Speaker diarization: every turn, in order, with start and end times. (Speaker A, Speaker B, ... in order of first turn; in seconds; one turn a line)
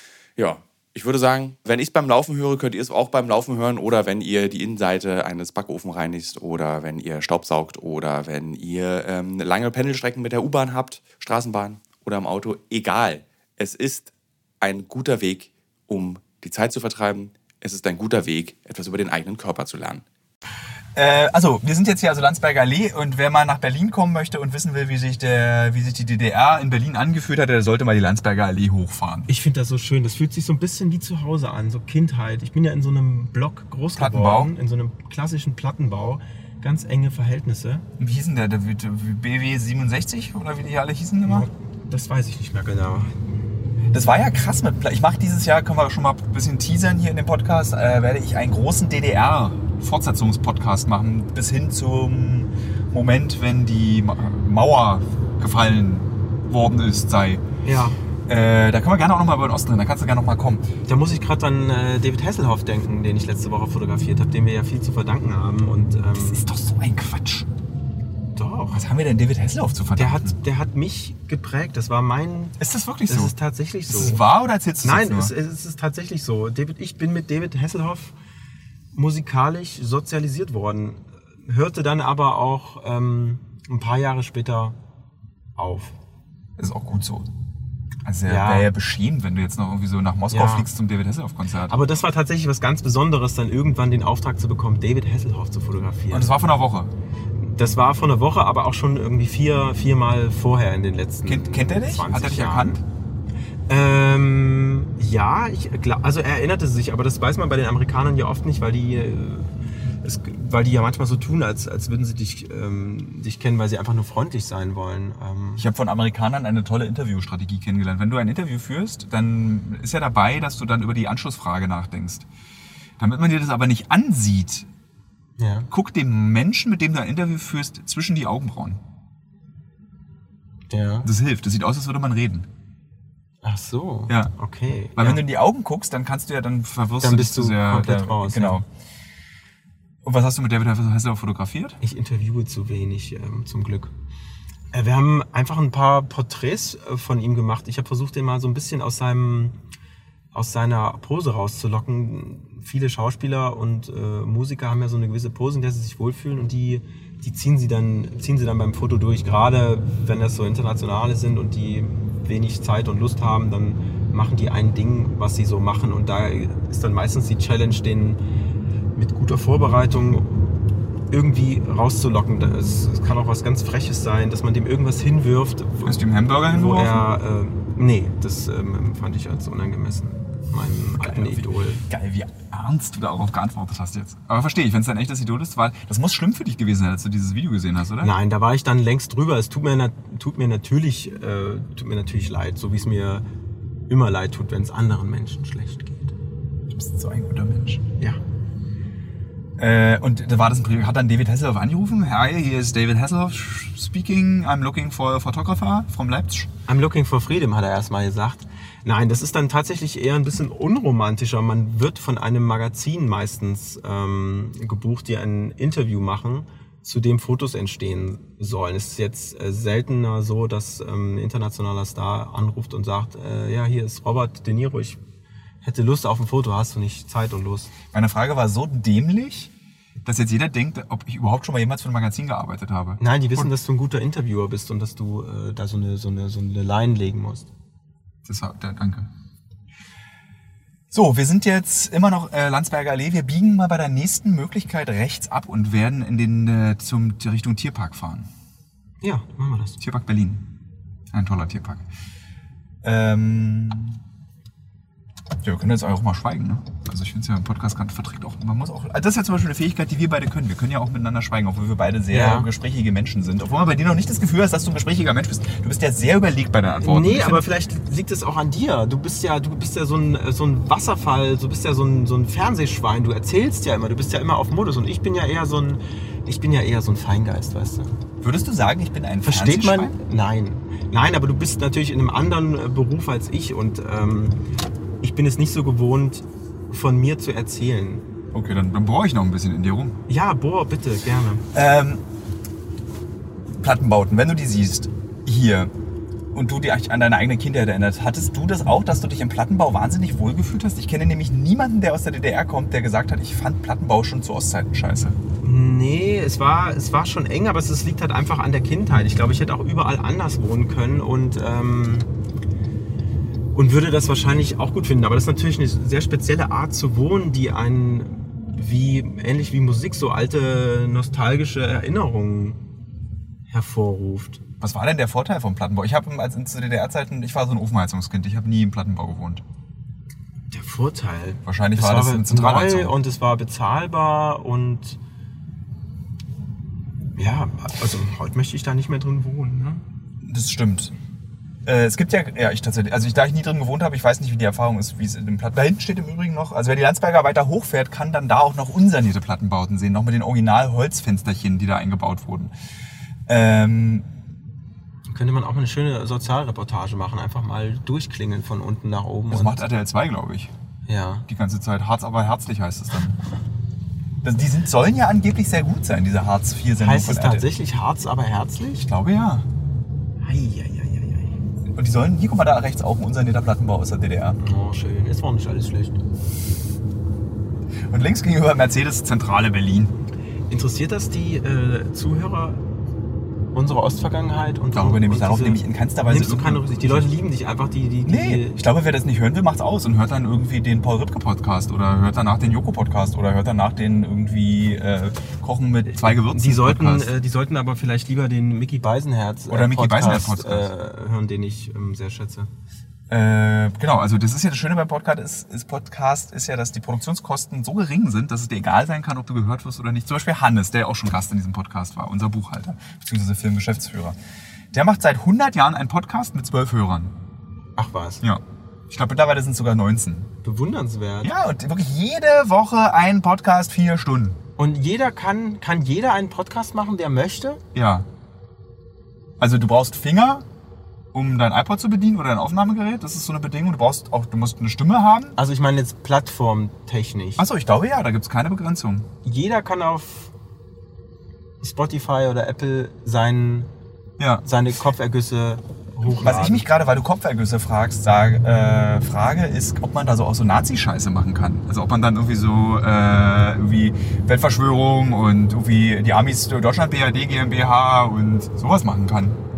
Speaker A: 0.4-20.1
Speaker B: 21.0-29.3
Speaker C: 29.3-37.8
Speaker B: 34.0-34.5
Speaker B: 38.0-41.5
Speaker C: 41.2-43.2
Speaker B: 43.9-57.4
Speaker C: 57.6-58.0
Speaker B: 58.3-60.7
Speaker C: 60.9-66.5
Speaker B: 66.2-67.5
Speaker C: 68.3-68.8
Speaker B: 68.7-70.4
Speaker C: 70.0-74.2
Speaker B: 72.6-73.3
Speaker B: 73.9-75.3
Speaker C: 74.8-78.2
Speaker C: 78.9-84.8
Speaker C: 85.6-86.0
Speaker B: 86.6-87.3
Speaker B: 88.0-91.8
Speaker C: 88.3-88.7
Speaker C: 90.3-90.7
Speaker C: 91.7-96.4
Speaker B: 96.1-96.9
Speaker C: 97.4-102.8
Speaker B: 101.3-102.8
Speaker C: 103.7-115.6
Speaker B: 115.6-122.2
Speaker B: 123.0-124.7
Speaker C: 125.4-125.7
Speaker B: 125.7-128.8
Speaker C: 130.7-131.1
Speaker B: 131.1-132.5
Speaker C: 133.4-135.2
Speaker B: 135.0-138.7
Speaker C: 137.0-138.6
Speaker B: 140.0-141.8
Speaker C: 141.8-143.9
Speaker C: 144.7-149.6
Speaker C: 150.3-168.2
Speaker C: 168.9-170.6
Speaker C: 171.1-181.9
Speaker B: 175.8-177.1
Speaker B: 181.0-188.1
Speaker C: 188.0-193.2
Speaker C: 193.9-196.1
Speaker B: 196.7-197.8
Speaker B: 199.6-206.5
Speaker C: 206.7-225.0
Speaker C: 225.6-227.7
Speaker B: 227.9-229.5
Speaker B: 230.1-233.5
Speaker C: 233.0-237.5
Speaker B: 238.2-239.1
Speaker B: 240.9-248.3
Speaker C: 249.0-249.8
Speaker B: 249.8-250.4
Speaker B: 251.1-251.8
Speaker B: 252.8-254.0
Speaker B: 255.4-267.5
Speaker C: 262.1-262.5
Speaker C: 266.8-277.9
Speaker B: 278.2-279.9
Speaker C: 279.2-284.4
Speaker C: 285.0-288.1
Speaker B: 288.3-290.0
Speaker C: 290.1-291.4
Speaker B: 291.5-292.0
Speaker B: 293.6-295.7
Speaker B: 296.3-305.2
Speaker C: 305.4-312.1
Speaker C: 313.5-322.6
Speaker C: 323.5-324.4
Speaker B: 324.6-329.4
Speaker C: 330.5-335.0
Speaker B: 331.4-332.9
Speaker C: 337.2-339.8
Speaker B: 340.2-340.9
Speaker B: 341.7-352.5
Speaker B: 353.3-354.1
Speaker C: 355.1-359.6
Speaker B: 359.3-360.5
Speaker C: 360.9-361.3
Speaker B: 361.3-363.2
Speaker B: 364.2-367.5
Speaker C: 366.8-368.9
Speaker B: 368.8-369.5
Speaker C: 370.2-371.4
Speaker B: 371.8-374.4
Speaker C: 374.4-376.0
Speaker B: 377.9-379.9
Speaker C: 380.5-382.6
Speaker C: 383.5-388.6
Speaker B: 384.7-387.1
Speaker B: 388.1-397.1
Speaker C: 395.9-402.5
Speaker B: 399.5-400.7
Speaker B: 403.1-414.2
Speaker B: 414.7-417.1
Speaker C: 417.8-418.2
Speaker B: 418.2-420.3
Speaker C: 420.4-421.3
Speaker B: 421.2-424.4
Speaker C: 424.6-427.6
Speaker B: 427.7-428.1
Speaker B: 429.4-430.4
Speaker B: 431.1-435.4
Speaker C: 435.4-437.4
Speaker B: 437.4-439.1
Speaker C: 439.2-440.3
Speaker C: 441.6-443.7
Speaker B: 444.2-444.4
Speaker C: 444.4-446.6
Speaker B: 446.1-459.4